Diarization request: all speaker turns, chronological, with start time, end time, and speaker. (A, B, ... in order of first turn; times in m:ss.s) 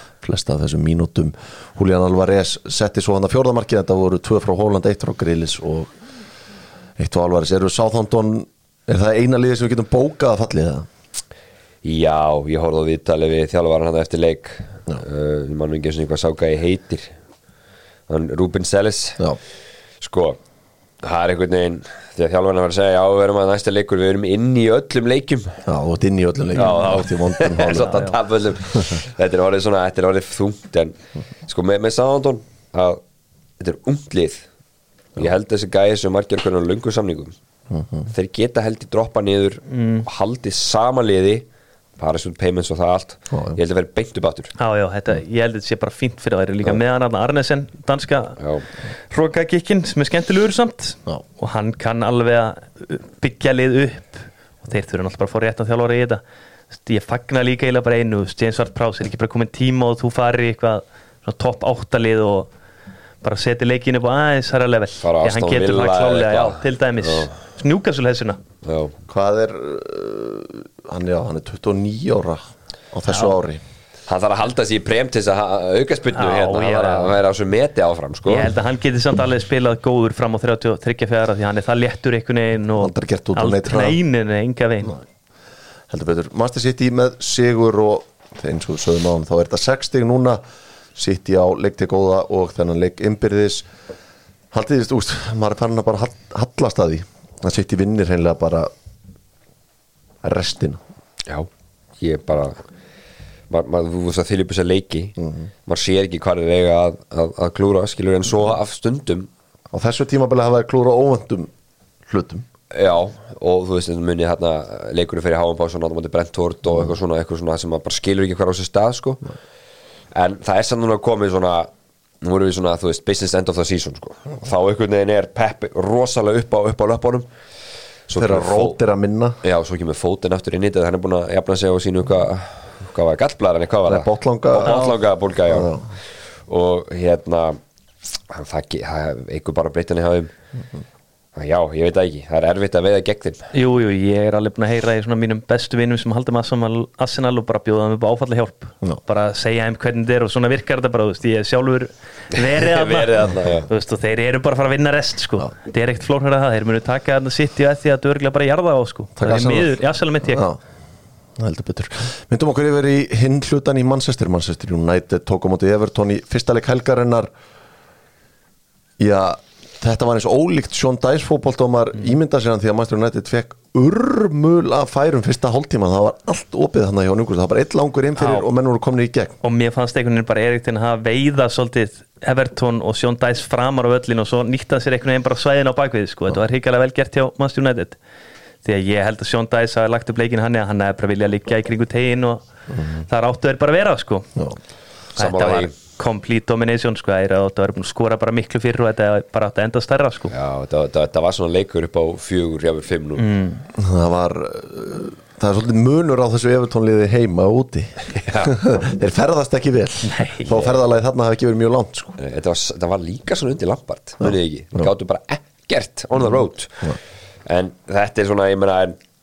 0:00.2-0:05.9 A
0:07.0-0:10.9 A
0:11.8-0:17.1 B
0:18.1-0:19.2 B
0:20.0-0:20.4 B
0:21.0-0:25.6 B
0:25.7-0:28.1 A
0:26.6-0:31.0 B
0:27.8-0:28.1 C
0:28.8-0:29.0 A
0:31.5-0:33.0 B
0:33.6-0:34.5 B
0:35.2-0:37.4 B
0:37.7-0:38.1 A
0:38.1-0:41.5 B
0:39.7-0:40.1 C
0:42.0-0:44.6 B
0:43.3-0:43.6 A
0:44.6-0:48.4 C
0:48.4-0:48.6 B
0:49.1-0:56.2 C
0:56.7-1:02.5 C
1:03.2-1:08.4 C
1:05.0-1:07.3 B
1:08.6-1:09.0 B
1:09.1-1:13.6 A
1:14.1-1:18.5 B
1:16.2-1:17.2 C
1:18.3-1:25.0 C
1:22.8-1:24.0 A
1:25.9-1:30.4 A
1:31.0-1:33.7 A
1:34.5-1:38.7 A
1:40.2-1:40.8 A
1:42.0-1:42.6 B
1:43.5-1:49.3 B
1:45.2-1:45.5 A
1:49.7-1:51.5 A
1:52.1-1:52.4 A
1:52.7-1:59.2 B
2:00.1-2:01.7 B
2:02.2-2:07.3 B
2:08.1-2:08.8 B
2:08.2-2:09.4 A
2:09.4-2:15.8 B
2:13.9-2:14.8 A
2:14.6-2:15.0 C
2:15.5-2:15.9 A
2:16.5-2:17.6 B
2:18.3-2:20.3 B
2:21.4-2:23.5 B
2:23.5-2:33.2 C
2:32.4-2:33.7 B
2:33.7-2:40.5 C
2:39.2-2:40.6 A
2:41.4-2:47.3 A
2:49.0-2:59.3 A
2:58.2-2:58.5 C
2:59.4-3:08.0 C
3:08.6-3:12.4 C
3:12.7-3:13.0 A
3:13.1-3:14.3 C
3:15.2-3:15.7 B
3:15.2-3:20.3 C
3:20.3-3:23.3 B
3:23.2-3:23.6 C
3:23.8-3:32.2 A
3:28.2-3:28.5 B
3:30.1-3:30.5 C
3:30.5-3:30.8 B
3:32.2-3:39.0 B
3:34.2-3:34.9 A